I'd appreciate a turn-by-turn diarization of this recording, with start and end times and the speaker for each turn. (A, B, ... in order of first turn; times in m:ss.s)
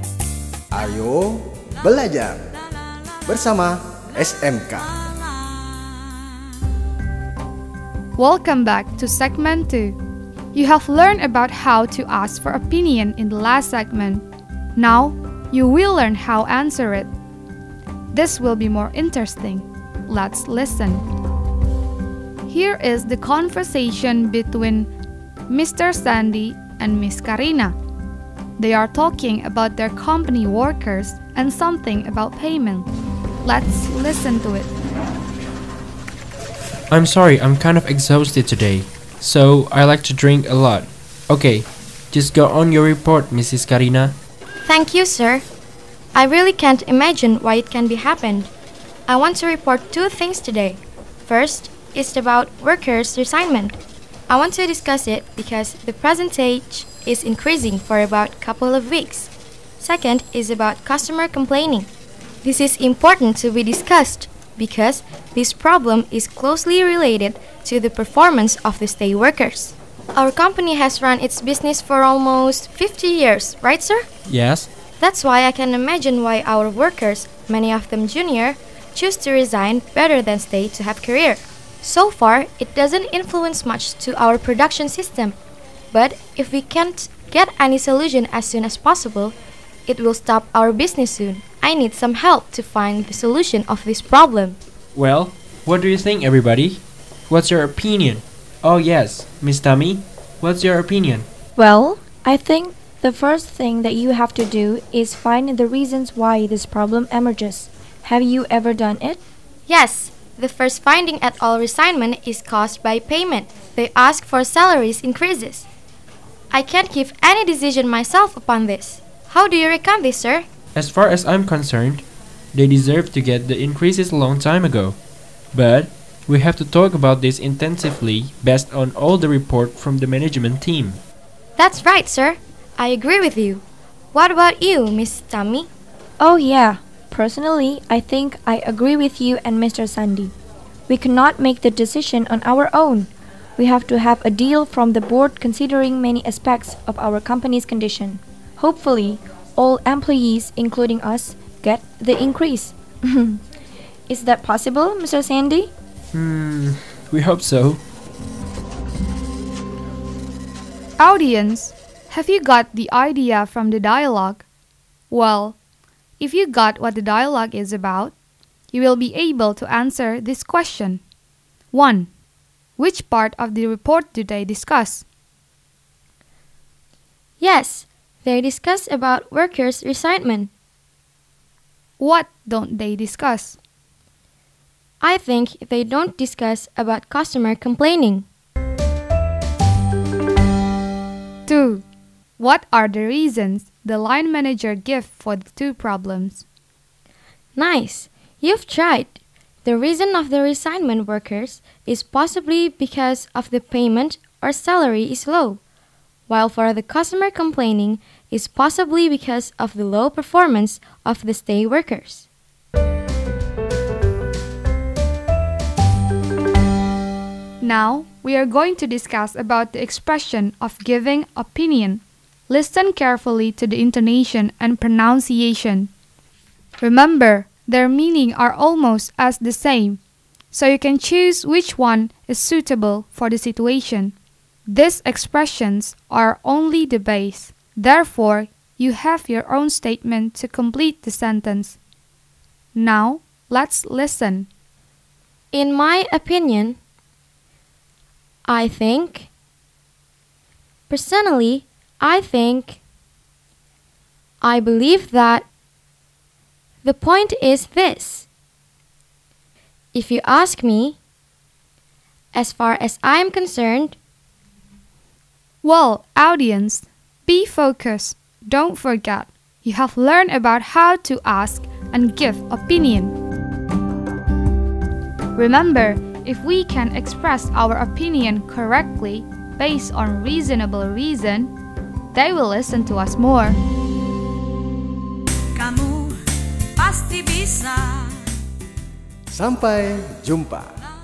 0:00.7-0:02.4 A
0:03.3-0:04.9 A
0:04.2-0:06.1 B
0:08.2-0:10.0 C
0:10.5-0:17.1 C
0:18.1-0:21.0 C
0:22.5-0:24.9 C
0:25.5-0:27.8 C
0:28.6-0:32.9 C
0:33.4-0:34.7 C
0:36.9-0:44.2 D
0:44.6-0:45.5 E
0:46.2-0:48.5 E
0:49.1-0:53.8 E
0:54.3-1:01.9 E
1:02.4-1:14.1 E
1:14.3-1:14.7 D
1:15.0-1:25.4 E
1:25.9-1:34.6 E
1:34.9-1:41.3 D
1:41.6-1:49.2 F
1:49.7-1:55.7 E
1:56.5-2:00.5 E
2:00.7-2:05.0 D
2:05.5-2:11.0 D
2:11.6-2:15.7 E
2:16.2-2:20.3 F
2:20.9-2:33.4 F
2:34.1-2:35.7 F
2:36.1-2:37.8 D
2:41.0-2:44.4 C
2:45.1-2:45.6 C
2:46.2-2:48.1 C
2:48.7-2:51.0 C
2:51.7-2:52.1 C
2:52.8-2:55.1 C
2:57.4-3:00.5 E
3:02.0-3:03.6 C
3:05.0-3:08.3 E
3:11.5-3:11.8 C
3:12.4-3:16.4 C
3:17.6-3:25.6 E
3:26.3-3:32.3 E
3:37.6-3:45.9 C
3:46.8-3:50.0 C
3:50.5-3:54.1 C
3:54.7-4:01.8 C
4:02.8-4:04.5 C
4:05.5-4:06.8 E
4:08.5-4:09.3 E
4:10.9-4:12.8 E
4:14.4-4:15.5 E
4:16.8-4:18.3 E
4:19.9-4:21.0 E
4:22.3-4:24.0 E
4:25.6-4:33.2 C
4:35.4-4:41.5 C
4:42.1-4:43.6 C
4:45.5-4:46.2 B
4:46.8-4:48.3 B
4:49.3-4:50.7 A